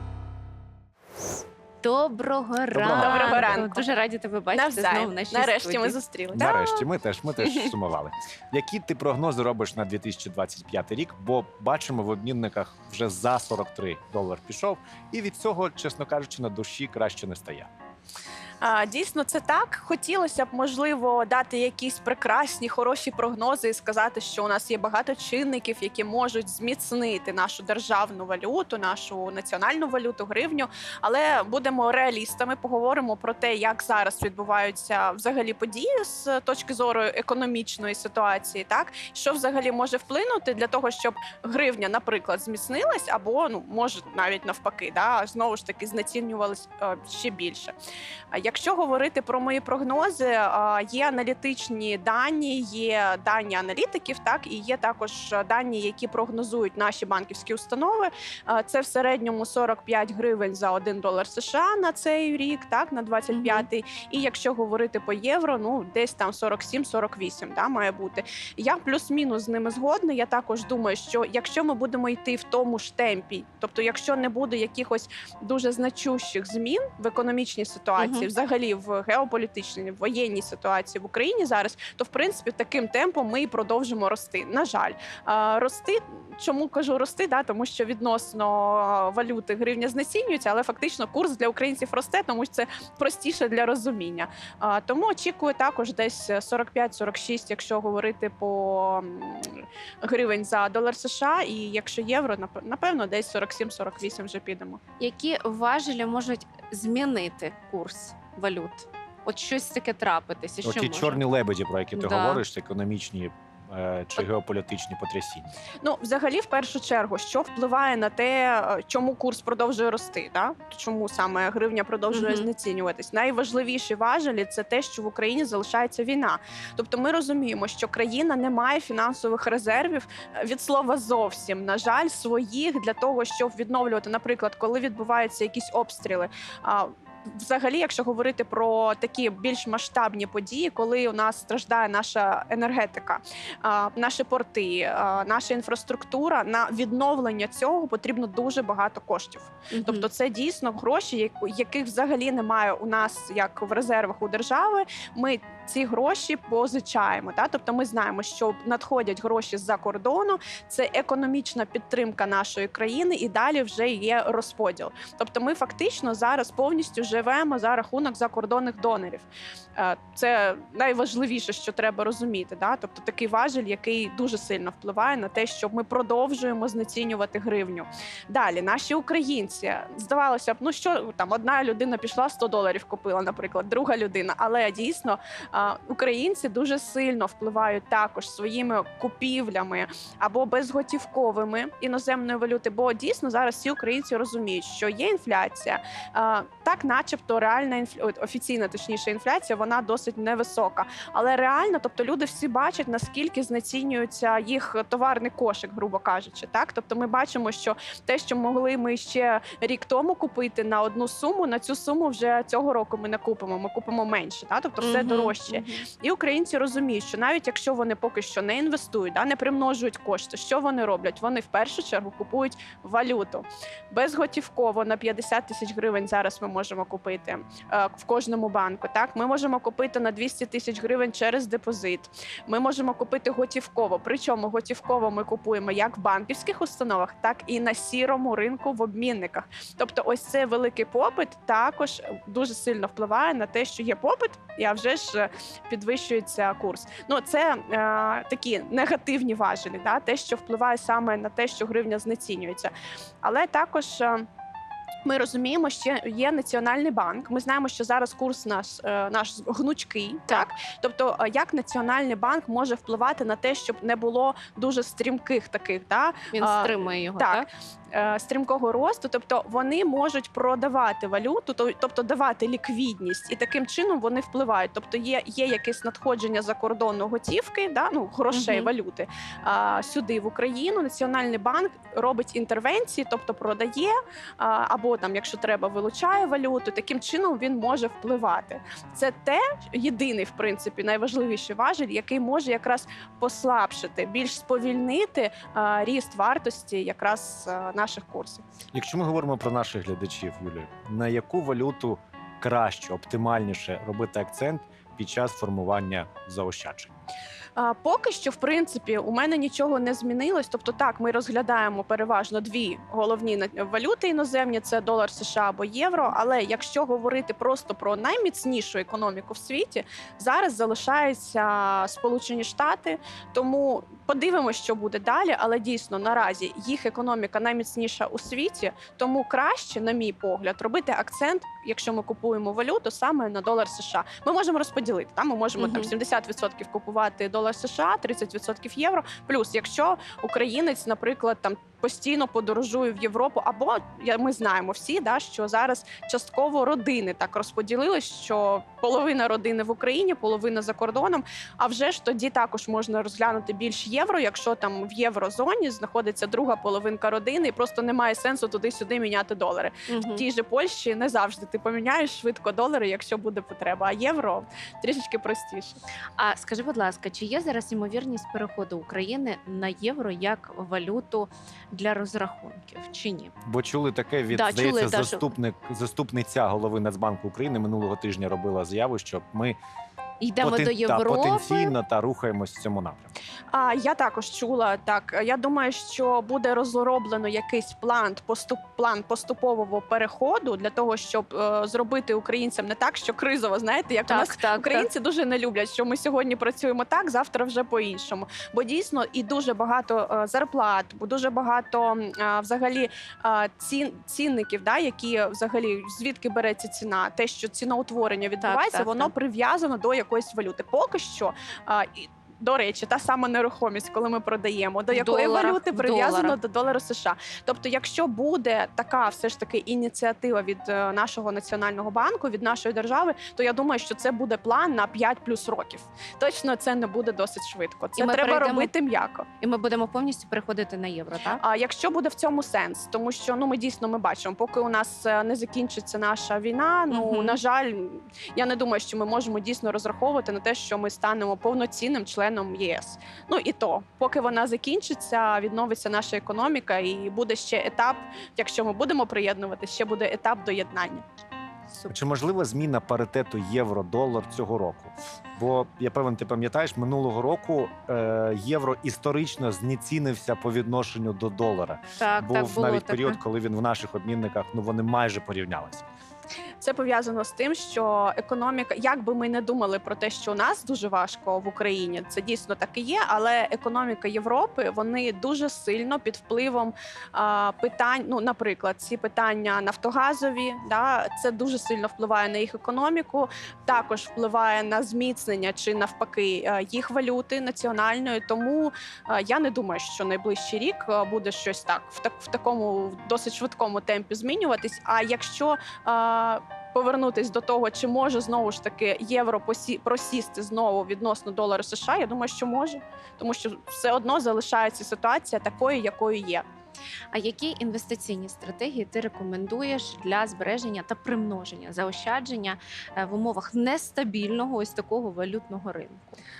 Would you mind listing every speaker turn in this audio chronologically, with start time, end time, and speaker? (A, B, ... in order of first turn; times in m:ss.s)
0:01.8-0:06.0 A
0:02.7-0:03.6 B
0:02.9-0:03.8 C
0:04.6-0:06.8 C
0:06.3-0:17.7 B
0:07.4-0:07.7 C
0:18.6-0:47.7 C
0:48.3-1:44.8 C
1:03.3-1:03.6 A
1:18.0-1:18.3 A
1:45.0-1:51.2 A
1:50.6-1:55.5 B
1:51.9-1:52.4 A
1:55.8-4:12.7 C
2:02.1-2:02.5 A
2:29.7-2:30.0 A
3:34.8-3:35.8 A
4:13.2-4:14.2 C
4:15.0-4:58.4 C
4:26.3-4:27.5 A
4:38.3-4:38.7 A
4:58.7-5:06.9 B
5:07.6-6:05.8 C
5:35.6-5:35.9 A
5:59.9-6:00.2 A
6:06.2-6:13.3 A
6:13.4-6:19.6 B
6:14.3-6:15.3 A
6:20.2-6:21.7 A
6:20.4-6:23.1 B
6:23.5-7:09.3 C
6:34.0-6:34.9 A
6:48.4-6:49.1 A
6:54.9-6:56.4 A
7:08.0-7:08.7 A
7:09.4-7:11.4 A
7:11.4-7:31.0 C
7:16.9-7:17.4 A
7:31.9-7:45.8 B
7:42.0-7:43.2 A
7:46.6-8:26.4 C
8:27.1-8:36.2 A